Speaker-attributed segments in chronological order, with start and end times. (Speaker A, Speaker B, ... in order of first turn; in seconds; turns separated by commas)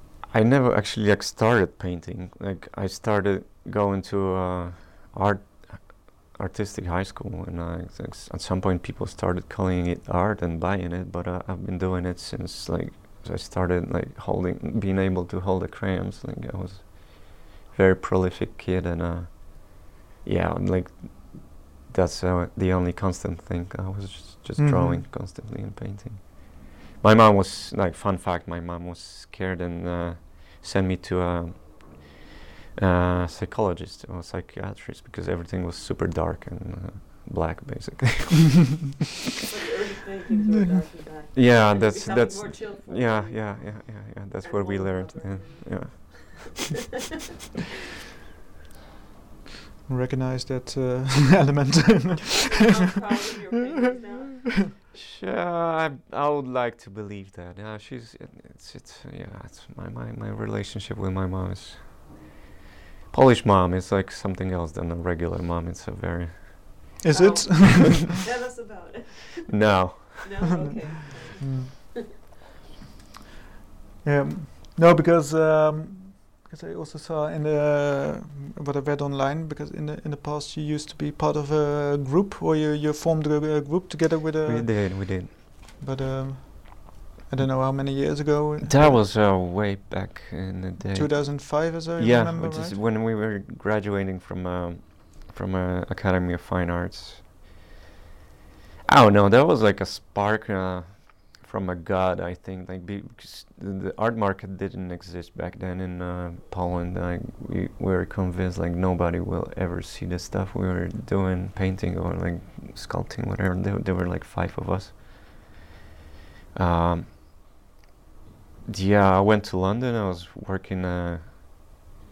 Speaker A: 0.3-38.8, Speaker B: 24.6-25.1, Speaker C: 39.4-46.4, Speaker A: 41.3-46.6, Speaker B: 49.9-52.4, Speaker C: 52.3-54.6, Speaker A: 54.9-62.2, Speaker A: 63.1-67.0, Speaker B: 67.0-68.1, Speaker C: 67.1-72.1, Speaker A: 69.5-70.7, Speaker B: 71.4-71.7, Speaker B: 74.0-89.0, Speaker A: 84.5-85.4, Speaker A: 88.6-97.3, Speaker B: 90.9-92.8, Speaker A: 98.8-115.5, Speaker A: 116.5-117.2, Speaker A: 118.7-121.8